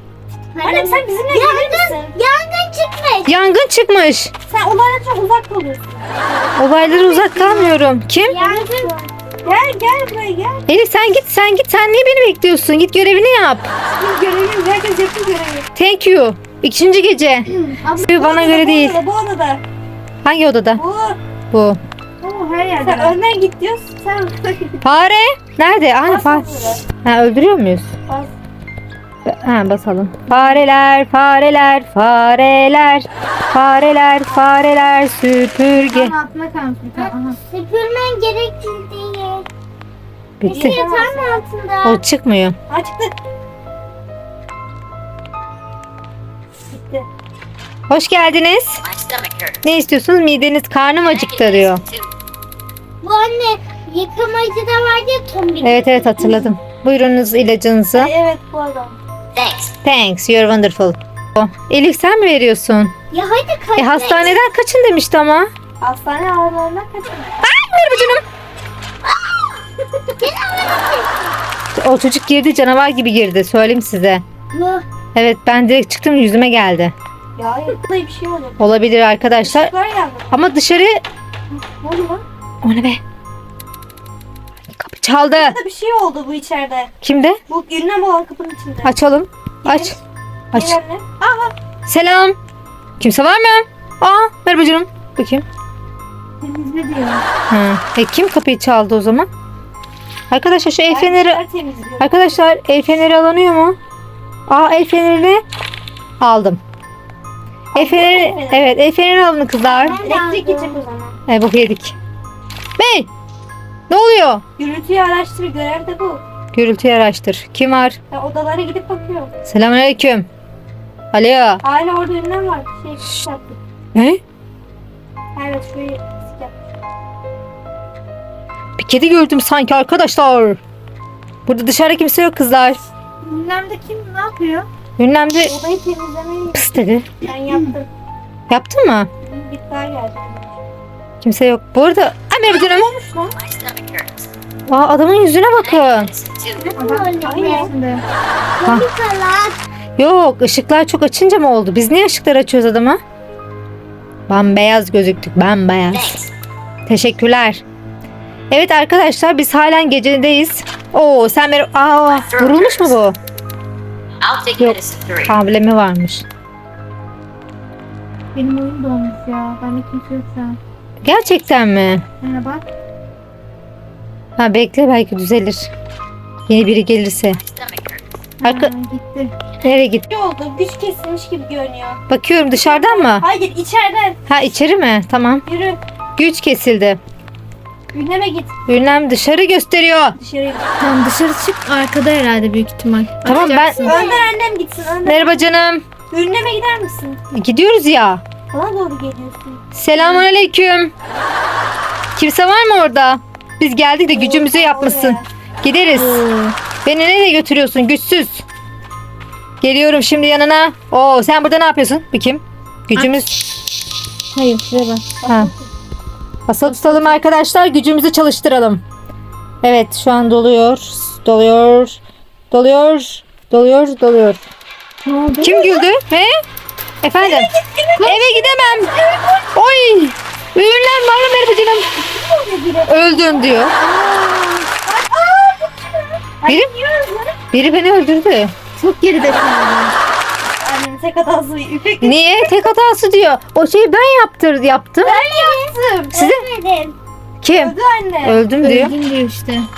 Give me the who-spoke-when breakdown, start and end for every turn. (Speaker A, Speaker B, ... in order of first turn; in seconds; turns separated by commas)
Speaker A: 0.5-3.3, Speaker B: 0.6-2.1, Speaker C: 3.2-4.3, Speaker B: 4.5-7.7, Speaker C: 6.6-8.4, Speaker A: 8.2-9.1, Speaker B: 8.3-10.7, Speaker C: 10.7-13.7, Speaker B: 13.9-15.7, Speaker C: 15.8-17.5, Speaker D: 17.7-18.1, Speaker C: 18.0-19.0, Speaker B: 18.1-19.6, Speaker C: 20.2-20.8, Speaker B: 20.8-21.2, Speaker C: 21.5-21.8, Speaker D: 22.2-23.2, Speaker B: 22.8-24.8, Speaker C: 24.8-26.5, Speaker B: 26.0-26.8, Speaker C: 27.0-27.9, Speaker B: 28.1-28.3, Speaker C: 29.2-36.1, Speaker D: 35.9-37.4, Speaker A: 36.9-39.5, Speaker C: 40.4-40.8, Speaker A: 40.4-42.0, Speaker B: 40.4-41.4, Speaker C: 41.8-42.5, Speaker B: 42.7-43.1, Speaker B: 46.7-47.0, Speaker C: 47.9-48.8, Speaker E: 48.8-49.6, Speaker C: 49.6-51.8, Speaker E: 51.0-52.1, Speaker A: 53.0-56.5, Speaker C: 55.6-58.1, Speaker B: 57.9-59.0, Speaker E: 59.3-59.7, Speaker C: 59.8-62.9, Speaker A: 63.1-64.4, Speaker C: 63.8-65.5, Speaker B: 65.8-67.5, Speaker C: 67.4-68.2, Speaker A: 70.2-71.3, Speaker C: 71.8-74.2, Speaker A: 74.5-74.8, Speaker C: 75.1-76.9, Speaker B: 77.3-78.7, Speaker C: 78.6-79.7, Speaker B: 79.4-80.5, Speaker C: 80.3-81.0, Speaker B: 81.5-82.2, Speaker C: 82.6-83.0, Speaker C: 84.7-85.6, Speaker B: 85.3-86.9, Speaker C: 87.0-87.4, Speaker B: 87.5-88.9, Speaker C: 88.8-89.9, Speaker B: 89.6-90.0, Speaker B: 90.5-91.0, Speaker C: 90.5-90.8, Speaker D: 91.2-91.5, Speaker C: 91.9-92.3, Speaker C: 93.0-95.4, Speaker D: 96.4-97.2, Speaker C: 97.5-99.3, Speaker C: 100.3-101.4, Speaker B: 100.9-102.4, Speaker C: 102.0-103.8, Speaker C: 104.5-105.4, Speaker C: 106.2-106.6, Speaker B: 107.7-108.8, Speaker C: 107.7-110.0, Speaker A: 109.6-110.8, Speaker B: 109.9-111.2, Speaker C: 111.3-112.0, Speaker C: 112.8-113.1, Speaker C: 113.9-114.4, Speaker B: 114.6-116.2, Speaker C: 116.5-118.0, Speaker B: 118.1-119.3, Speaker C: 119.5-120.3, Speaker C: 121.1-121.6, Speaker B: 121.6-123.6, Speaker C: 123.9-124.2, Speaker B: 125.3-126.5, Speaker C: 128.8-130.6, Speaker C: 131.4-132.8, Speaker D: 133.2-134.7, Speaker C: 135.0-135.5, Speaker B: 135.4-137.9, Speaker C: 136.5-137.1, Speaker C: 138.5-139.1, Speaker B: 139.2-140.6, Speaker C: 141.2-142.9, Speaker B: 142.5-143.4, Speaker E: 143.3-144.3, Speaker C: 144.7-146.1, Speaker E: 145.5-146.7, Speaker D: 146.6-148.0, Speaker A: 146.7-147.7, Speaker B: 147.2-147.7, Speaker A: 148.6-149.6, Speaker C: 148.6-148.9, Speaker C: 150.0-153.0, Speaker C: 154.3-156.2, Speaker E: 155.9-156.3, Speaker C: 156.9-157.6, Speaker C: 158.5-163.2, Speaker E: 162.1-162.9, Speaker E: 164.2-165.3, Speaker C: 164.6-166.2, Speaker D: 168.3-170.6, Speaker C: 171.0-172.0, Speaker D: 172.2-172.6, Speaker C: 174.4-175.7, Speaker C: 176.5-177.4, Speaker E: 177.3-178.0, Speaker D: 178.4-179.3, Speaker C: 178.4-178.7, Speaker C: 179.6-180.1, Speaker B: 180.1-182.0, Speaker C: 182.1-183.2, Speaker B: 182.5-184.2, Speaker C: 184.3-185.4, Speaker B: 185.4-185.8, Speaker C: 186.2-187.0, Speaker B: 187.9-188.5, Speaker C: 188.7-190.2, Speaker B: 190.2-190.8, Speaker D: 190.8-193.9, Speaker C: 193.2-194.0, Speaker A: 193.7-194.3, Speaker B: 193.8-195.4, Speaker C: 195.1-195.8, Speaker B: 196.1-197.2, Speaker C: 197.3-198.2, Speaker B: 198.5-200.3, Speaker C: 199.7-200.9, Speaker C: 202.2-206.2, Speaker B: 204.1-205.3, Speaker D: 205.9-206.5, Speaker C: 206.8-208.4, Speaker C: 209.6-213.3, Speaker D: 212.9-213.2, Speaker D: 214.3-215.1, Speaker B: 215.2-215.6, Speaker C: 216.5-218.8, Speaker D: 216.6-217.2, Speaker C: 219.6-222.0, Speaker C: 222.5-224.4, Speaker D: 225.0-225.7, Speaker C: 225.4-226.3, Speaker C: 227.0-228.9, Speaker B: 227.1-229.6, Speaker C: 229.5-231.9, Speaker B: 232.0-237.4, Speaker C: 232.9-233.7, Speaker C: 237.5-238.5, Speaker D: 238.8-239.9, Speaker B: 240.6-242.5, Speaker C: 242.0-245.2, Speaker B: 245.0-246.2, Speaker A: 245.4-246.9, Speaker C: 246.1-246.4, Speaker C: 247.4-248.9, Speaker B: 247.5-248.4, Speaker D: 248.6-249.7